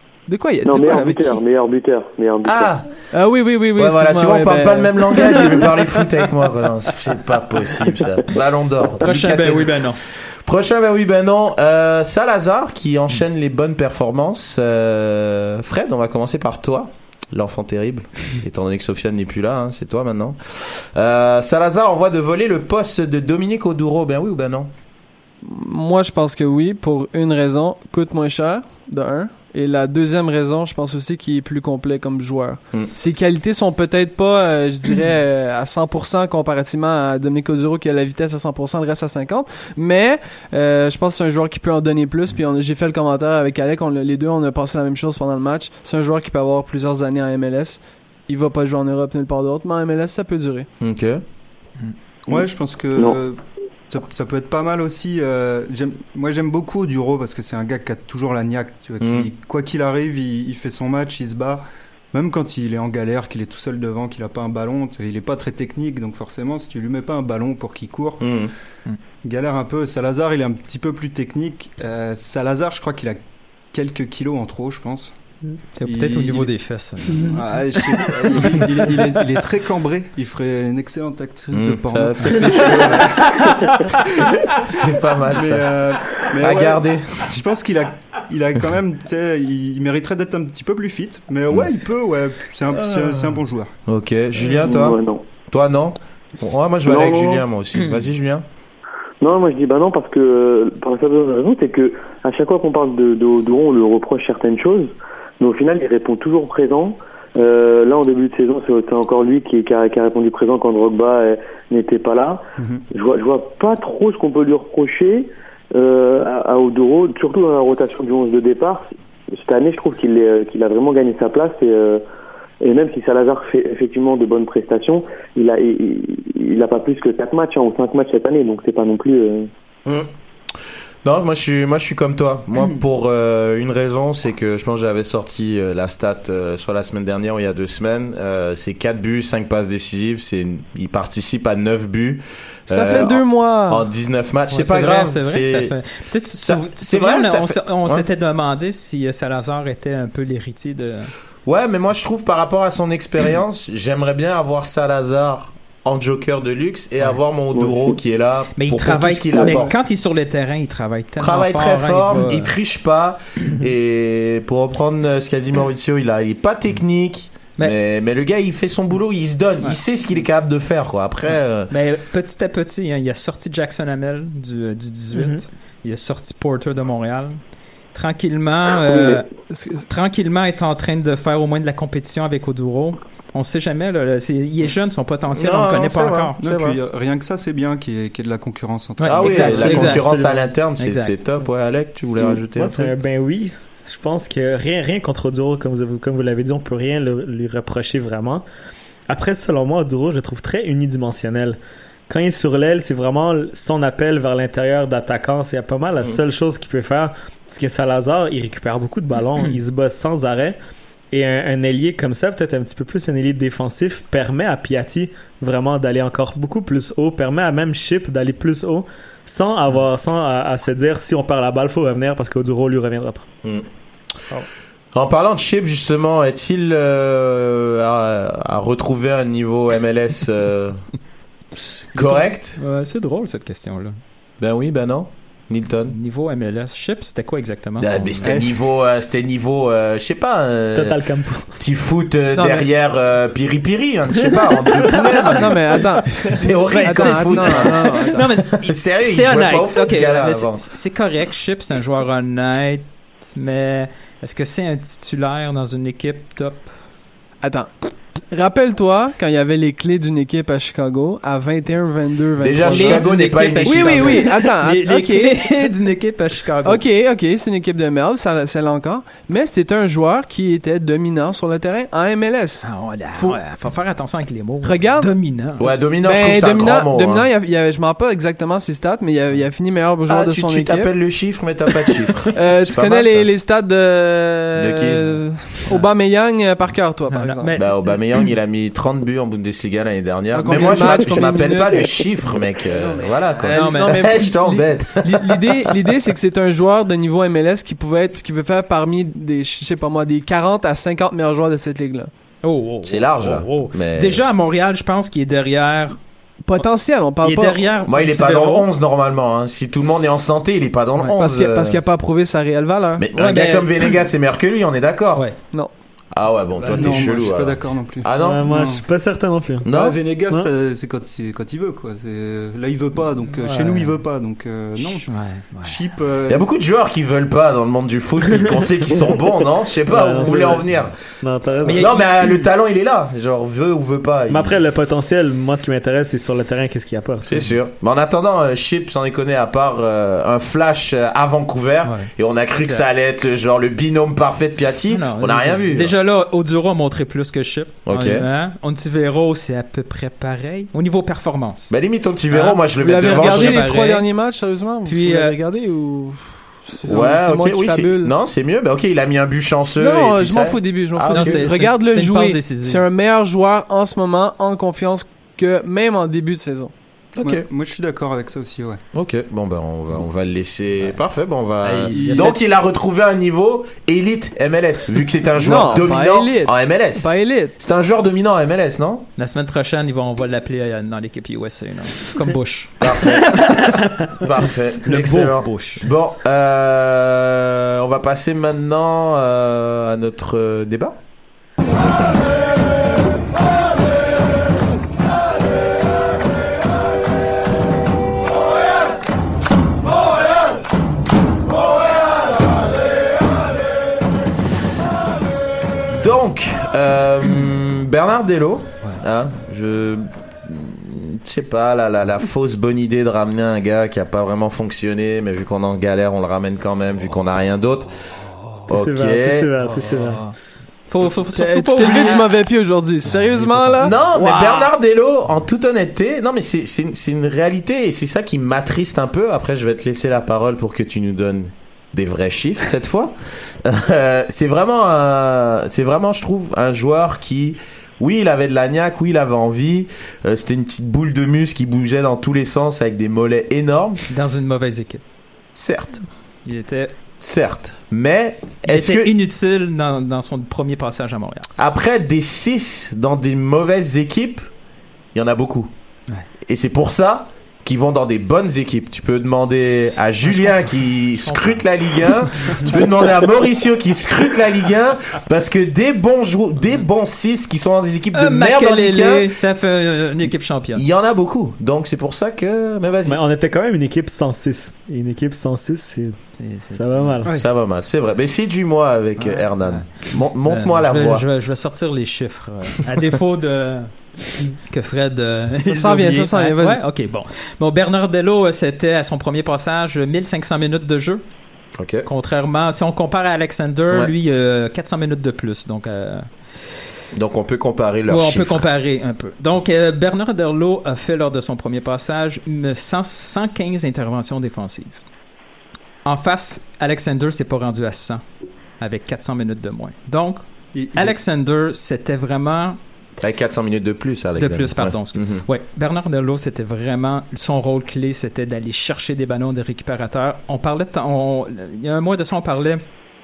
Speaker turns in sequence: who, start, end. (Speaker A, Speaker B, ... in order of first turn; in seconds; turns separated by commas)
Speaker A: 0.3-1.4, Speaker B: 0.7-2.7, Speaker C: 2.5-2.9, Speaker A: 3.1-5.4, Speaker C: 3.8-9.9, Speaker D: 9.0-10.0, Speaker C: 10.4-24.7, Speaker A: 25.4-50.7, Speaker C: 50.8-51.2, Speaker E: 52.3-68.4, Speaker C: 59.0-59.3, Speaker C: 68.2-68.5, Speaker E: 69.2-73.2, Speaker E: 73.7-75.1, Speaker D: 75.8-77.4, Speaker E: 75.8-76.5, Speaker E: 77.2-83.5, Speaker D: 78.0-78.6, Speaker C: 81.5-83.2, Speaker C: 84.5-87.3, Speaker E: 85.3-93.7, Speaker C: 93.9-98.5, Speaker B: 94.5-95.2, Speaker B: 96.8-97.4, Speaker B: 99.2-122.0, Speaker E: 112.6-112.8, Speaker B: 122.6-129.5, Speaker C: 131.0-145.8, Speaker A: 142.7-143.8, Speaker D: 144.5-151.1, Speaker C: 146.4-148.1, Speaker C: 151.5-159.8, Speaker B: 157.6-157.9, Speaker D: 158.6-162.6, Speaker C: 161.2-171.7, Speaker D: 171.7-177.4, Speaker F: 175.1-175.4, Speaker D: 177.9-179.3, Speaker A: 179.5-179.9, Speaker D: 179.9-186.4, Speaker C: 185.3-186.8, Speaker E: 186.4-189.9, Speaker D: 189.0-190.1, Speaker C: 189.1-192.9, Speaker F: 189.8-190.5, Speaker D: 190.8-191.1, Speaker F: 192.6-198.4, Speaker F: 199.1-210.6, Speaker F: 211.1-223.3, Speaker C: 224.9-230.8, Speaker C: 231.6-232.6, Speaker D: 231.9-234.0, Speaker C: 234.4-236.0, Speaker D: 235.9-238.4, Speaker C: 237.8-241.0, Speaker E: 238.2-238.5, Speaker F: 240.7-241.5, Speaker C: 241.6-250.6, Speaker A: 245.3-246.2, Speaker D: 246.7-256.7, Speaker A: 246.8-248.2, Speaker A: 257.4-257.7, Speaker A: 258.3-263.1, Speaker C: 262.4-264.3, Speaker D: 262.6-266.9, Speaker A: 263.6-265.4, Speaker A: 266.6-273.4, Speaker D: 272.6-275.7, Speaker A: 274.6-275.1, Speaker C: 275.6-277.3, Speaker A: 276.0-280.9, Speaker C: 280.1-283.3, Speaker A: 282.3-287.5, Speaker C: 284.6-285.2, Speaker D: 287.1-287.9, Speaker C: 287.6-295.6, Speaker A: 290.3-292.1, Speaker A: 292.6-302.1, Speaker D: 293.5-294.1, Speaker D: 302.4-306.0, Speaker C: 302.9-304.2, Speaker A: 306.5-307.6, Speaker D: 307.2-308.7, Speaker C: 307.9-311.8, Speaker A: 311.2-313.1, Speaker C: 313.0-315.3, Speaker D: 313.1-314.0, Speaker C: 316.1-318.5, Speaker D: 316.6-317.0, Speaker E: 316.7-318.8, Speaker F: 318.2-319.7, Speaker C: 319.6-320.0, Speaker E: 319.7-325.1, Speaker D: 323.4-323.9, Speaker D: 324.8-325.8, Speaker E: 325.6-326.5, Speaker C: 326.3-330.9, Speaker F: 329.9-330.7, Speaker F: 331.2-331.9, Speaker D: 331.6-332.5, Speaker C: 331.7-334.6, Speaker F: 334.3-337.4, Speaker C: 337.2-346.0, Speaker D: 341.9-342.9, Speaker D: 344.9-351.7, Speaker C: 347.9-348.3, Speaker C: 351.7-353.7, Speaker D: 352.3-354.1, Speaker A: 352.8-358.1, Speaker D: 354.9-355.4, Speaker C: 356.9-361.4, Speaker A: 359.8-366.7, Speaker D: 361.1-362.9, Speaker C: 367.2-367.5, Speaker E: 367.2-368.8, Speaker C: 368.9-379.1, Speaker D: 371.6-372.4, Speaker E: 371.9-372.3, Speaker A: 375.4-377.6, Speaker D: 379.2-384.1, Speaker C: 382.8-383.6, Speaker C: 384.2-391.0, Speaker D: 384.9-385.9, Speaker C: 405.9-417.9, Speaker C: 418.7-419.5, Speaker F: 418.7-420.2, Speaker D: 420.9-422.3, Speaker A: 421.3-424.7, Speaker D: 423.2-423.9, Speaker C: 423.8-444.0, Speaker D: 444.1-445.0, Speaker C: 445.6-446.1, Speaker D: 446.5-446.9, Speaker C: 447.2-449.1, Speaker D: 448.7-451.5, Speaker C: 451.6-454.4, Speaker C: 455.1-455.7, Speaker C: 456.5-469.3, Speaker D: 460.2-461.6, Speaker D: 462.4-462.9, Speaker D: 468.1-470.9, Speaker C: 470.8-473.2, Speaker F: 473.1-476.2, Speaker D: 476.4-477.2, Speaker F: 476.7-477.3, Speaker C: 477.3-481.2, Speaker D: 479.2-483.9, Speaker D: 484.5-491.2, Speaker A: 485.7-486.8, Speaker C: 491.8-492.1, Speaker D: 492.1-496.3, Speaker C: 497.1-498.7, Speaker D: 498.1-505.0, Speaker D: 506.1-508.2, Speaker D: 508.8-510.4, Speaker E: 510.7-511.2, Speaker D: 510.9-512.8, Speaker C: 513.2-515.5, Speaker D: 514.4-522.8